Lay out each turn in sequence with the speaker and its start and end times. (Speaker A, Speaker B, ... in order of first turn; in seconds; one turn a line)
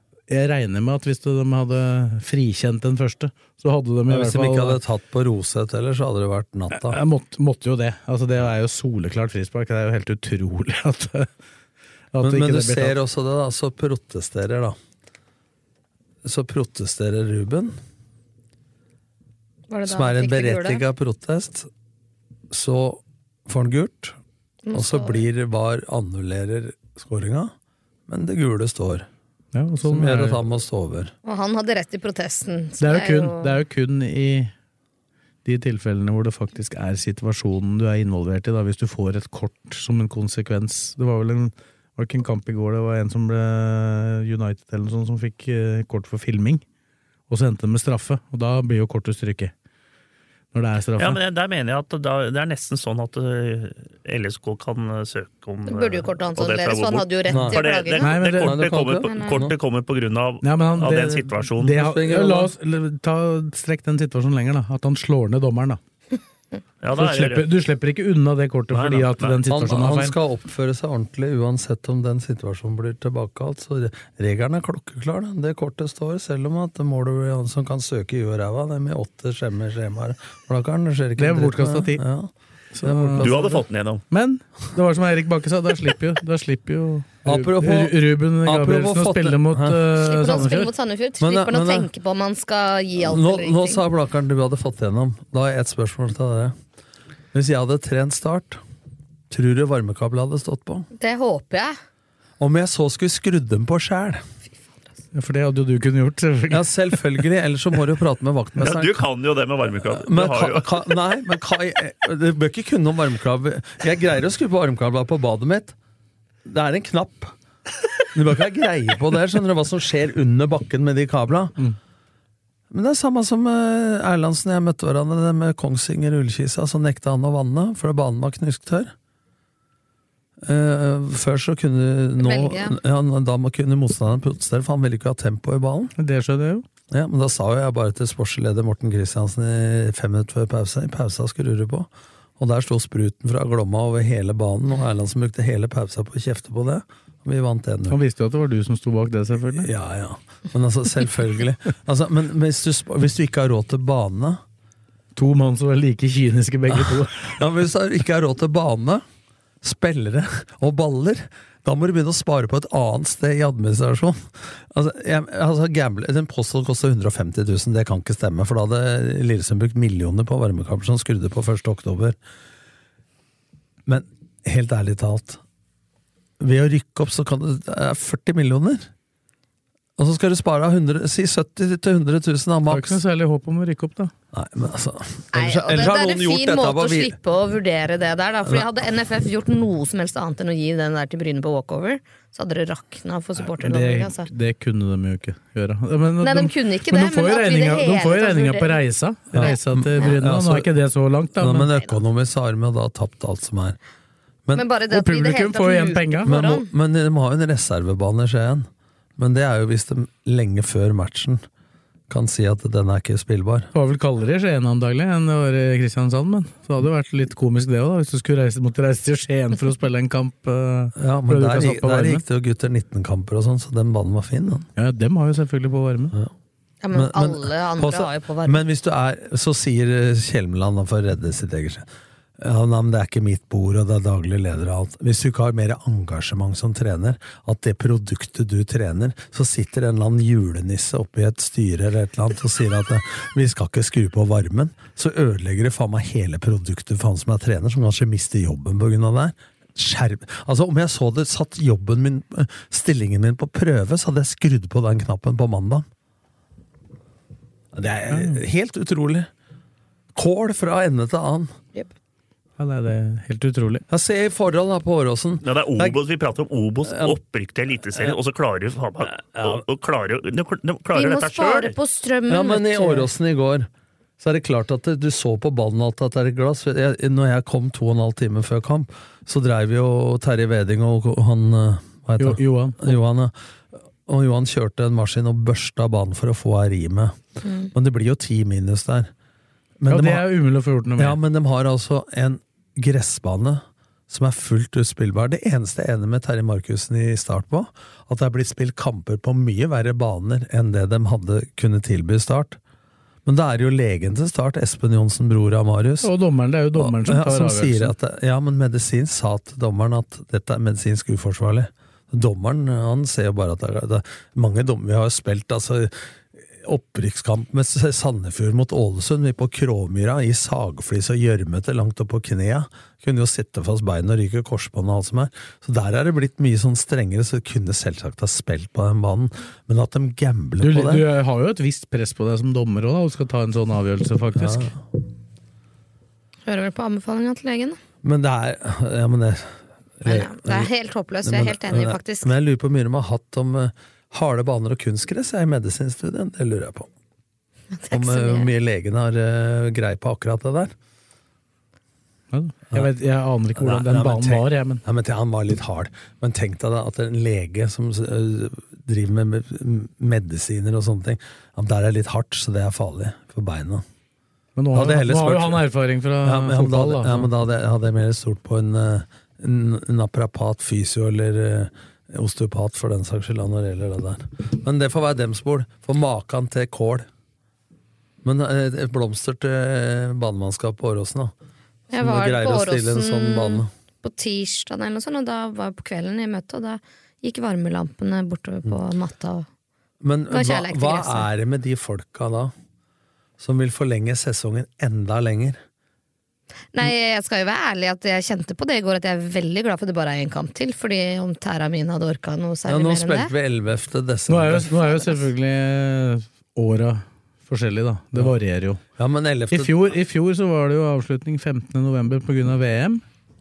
Speaker A: 0.3-4.8
Speaker B: 4.1-7.0
Speaker A: 6.7-11.3
Speaker A: 12.1-13.0
Speaker B: 12.2-14.8
Speaker B: 16.2-17.7
Speaker C: 19.7-20.9
Speaker B: 19.8-21.7
Speaker B: 22.5-24.2
Speaker C: 24.6-25.2
Speaker B: 24.7-27.5
Speaker B: 28.1-29.1
Speaker A: 29.5-30.4
Speaker B: 29.8-31.1
Speaker C: 31.2-33.5
Speaker A: 32.8-34.5
Speaker A: 35.4-46.6
Speaker A: 47.3-49.5
Speaker A: 50.5-51.2
Speaker D: 51.0-61.8
Speaker C: 55.6-58.1
Speaker B: 57.3-57.6
Speaker A: 58.0-58.6
Speaker B: 58.3-59.5
Speaker A: 60.4-65.8
Speaker B: 61.8-62.5
Speaker D: 66.8-67.5
Speaker A: 66.9-70.2
Speaker D: 68.7-69.4
Speaker B: 69.5-82.3
Speaker A: 81.2-82.0
Speaker A: 82.7-83.6
Speaker B: 82.8-83.6
Speaker D: 83.2-84.0
Speaker A: 84.1-90.7
Speaker B: 87.2-89.8
Speaker C: 90.0-93.8
Speaker B: 91.2-91.9
Speaker B: 93.0-96.5
Speaker B: 97.3-98.6
Speaker B: 99.3-100.9
Speaker C: 101.0-101.7
Speaker B: 102.4-104.2
Speaker A: 105.1-106.7
Speaker B: 106.5-109.0
Speaker D: 108.6-110.8
Speaker B: 109.8-115.7
Speaker B: 116.4-117.3
Speaker B: 118.1-121.5
Speaker B: 122.7-128.9
Speaker B: 130.4-135.9
Speaker C: 132.2-132.8
Speaker A: 136.0-136.6
Speaker B: 136.9-148.0
Speaker A: 147.9-149.7
Speaker B: 149.5-154.4
Speaker A: 155.2-157.4
Speaker B: 156.7-159.0
Speaker B: 159.6-172.2
Speaker B: 173.8-175.4
Speaker B: 176.4-178.9
Speaker B: 180.0-183.0
Speaker A: 182.7-184.1
Speaker B: 184.3-187.2
Speaker C: 185.3-194.3
Speaker A: 193.4-201.7
Speaker C: 196.2-198.8
Speaker B: 199.3-200.7
Speaker C: 199.4-200.1
Speaker B: 201.4-203.8
Speaker C: 204.5-206.7
Speaker A: 204.9-206.4
Speaker B: 206.2-211.4
Speaker B: 212.1-213.7
Speaker A: 213.7-222.2
Speaker B: 221.0-224.7
Speaker A: 224.8-226.1
Speaker C: 226.8-228.6
Speaker B: 226.9-231.9
Speaker B: 232.4-255.8
Speaker B: 257.7-259.3
Speaker A: 258.1-258.4
Speaker B: 260.1-261.5
Speaker A: 262.6-263.8
Speaker B: 263.9-266.0
Speaker D: 265.4-271.8
Speaker B: 266.8-267.1
Speaker B: 269.3-269.6
Speaker C: 270.9-273.1
Speaker B: 272.3-273.7
Speaker B: 274.2-283.3
Speaker A: 282.2-283.0
Speaker B: 284.1-287.1
Speaker C: 287.4-287.7
Speaker B: 287.7-289.1
Speaker B: 289.8-290.2
Speaker A: 289.9-291.1
Speaker B: 291.0-302.6
Speaker B: 303.2-306.1
Speaker A: 306.0-307.9
Speaker B: 306.8-316.0
Speaker B: 316.5-331.0
Speaker A: 330.6-334.7
Speaker B: 334.4-334.7
Speaker C: 336.5-337.8
Speaker B: 338.0-340.7
Speaker C: 340.1-342.3
Speaker B: 341.2-346.9
Speaker C: 347.7-348.5
Speaker B: 347.9-350.7
Speaker A: 352.3-354.8
Speaker B: 353.5-363.8
Speaker A: 364.6-367.3
Speaker B: 364.7-365.6
Speaker B: 366.2-377.1
Speaker B: 378.2-381.3
Speaker C: 381.9-389.4
Speaker B: 381.9-383.7
Speaker B: 390.0-392.5
Speaker C: 390.3-391.3
Speaker B: 393.4-395.6
Speaker C: 396.7-403.3
Speaker B: 402.7-404.7
Speaker A: 404.3-408.8
Speaker C: 404.8-405.2
Speaker B: 409.0-409.7
Speaker A: 409.5-413.0